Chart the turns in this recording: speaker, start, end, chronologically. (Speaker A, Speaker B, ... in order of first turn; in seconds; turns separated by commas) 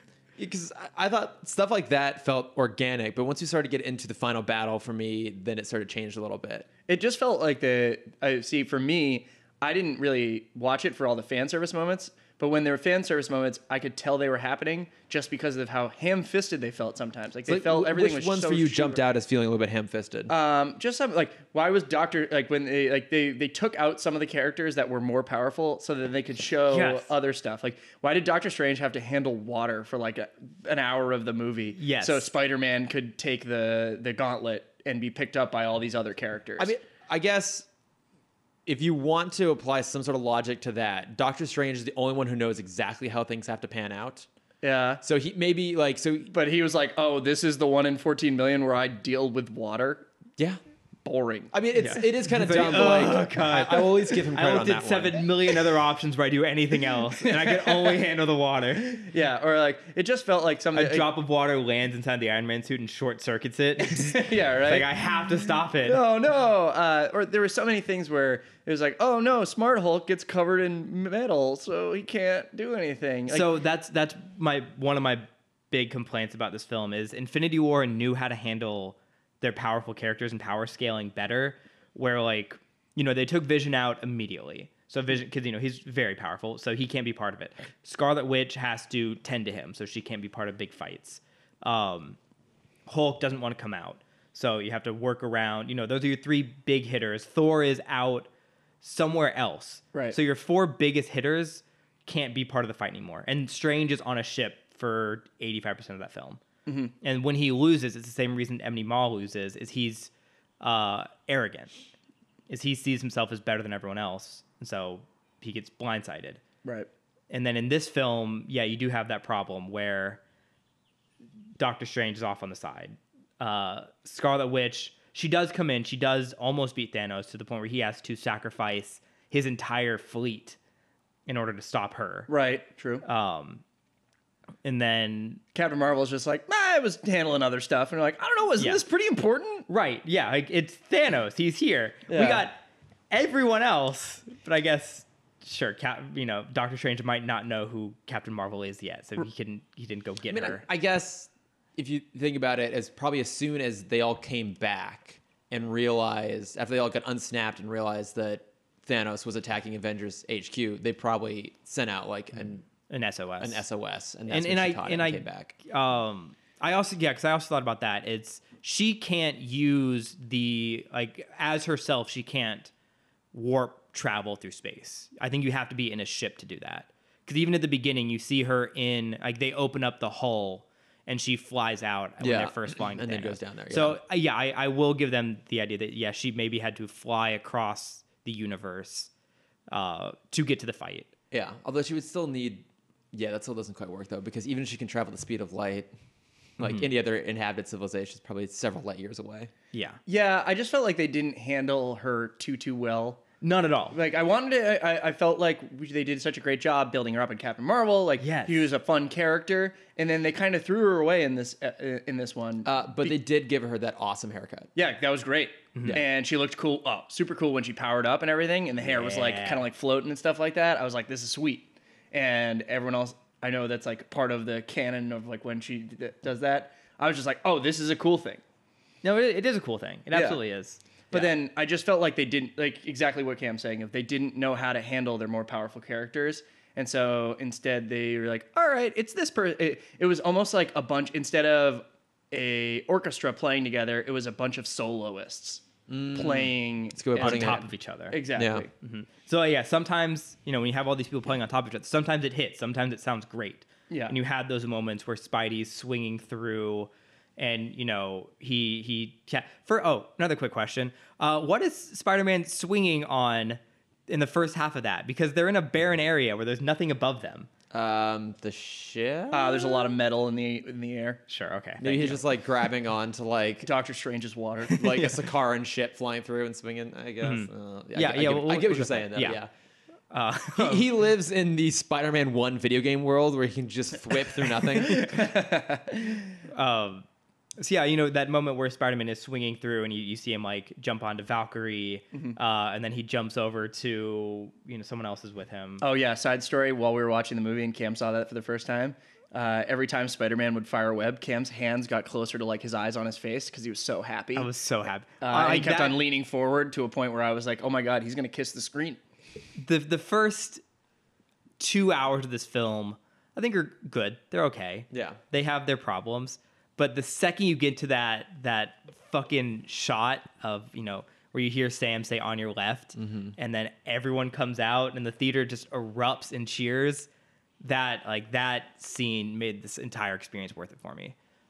Speaker A: 0.4-6.7, Speaker B: 6.9-19.0, Speaker A: 17.5-20.3, Speaker B: 20.3-36.7, Speaker C: 26.7-27.1, Speaker C: 31.8-32.3, Speaker A: 36.6-37.6, Speaker A: 38.6-44.3, Speaker B: 44.6-45.0, Speaker A: 45.0-46.3, Speaker B: 46.3-50.1, Speaker B: 51.0-51.5, Speaker A: 51.5-55.3, Speaker C: 51.8-59.0, Speaker B: 57.2-58.0, Speaker B: 59.0-61.1, Speaker C: 60.7-66.0, Speaker B: 63.8-73.5, Speaker C: 73.3-92.2, Speaker C: 92.9-98.3, Speaker C: 98.8-106.4, Speaker B: 106.7-106.9, Speaker C: 107.0-111.7, Speaker C: 112.5-116.4, Speaker C: 117.3-120.2, Speaker C: 121.6-130.6, Speaker C: 131.3-132.3, Speaker B: 132.3-133.0, Speaker C: 133.0-133.6, Speaker C: 134.6-135.4, Speaker B: 135.5-139.7, Speaker C: 139.7-142.6, Speaker B: 142.1-142.4, Speaker C: 143.1-150.6, Speaker A: 150.3-162.6, Speaker C: 162.9-163.6, Speaker A: 163.4-165.5, Speaker C: 164.3-172.7, Speaker C: 173.3-189.1, Speaker A: 182.2-184.0, Speaker C: 189.7-191.1, Speaker A: 191.3-195.9, Speaker A: 196.6-199.5, Speaker C: 196.6-196.9, Speaker C: 199.7-200.0, Speaker B: 200.1-203.2, Speaker C: 203.4-204.0, Speaker B: 203.9-213.1, Speaker C: 208.2-208.7, Speaker A: 212.6-214.7, Speaker B: 214.7-228.4, Speaker C: 218.8-219.7, Speaker C: 229.0-231.3, Speaker B: 230.1-230.4, Speaker B: 231.1-248.7, Speaker A: 245.9-247.6, Speaker C: 247.2-248.2, Speaker A: 248.3-248.7, Speaker C: 248.8-267.5, Speaker B: 253.9-254.1, Speaker A: 267.7-269.9, Speaker B: 269.3-271.2, Speaker C: 271.3-272.2, Speaker A: 271.8-273.7, Speaker B: 273.6-274.8, Speaker C: 274.7-275.2, Speaker A: 274.7-279.5, Speaker C: 277.2-279.4, Speaker C: 280.1-280.9, Speaker A: 280.5-285.3, Speaker B: 284.7-286.3, Speaker C: 286.5-287.0, Speaker C: 287.6-295.8, Speaker B: 295.8-304.5, Speaker C: 304.3-306.0, Speaker B: 305.2-309.0, Speaker C: 309.6-310.6, Speaker C: 311.6-327.1, Speaker A: 314.9-315.2, Speaker A: 323.0-323.3, Speaker C: 327.6-331.1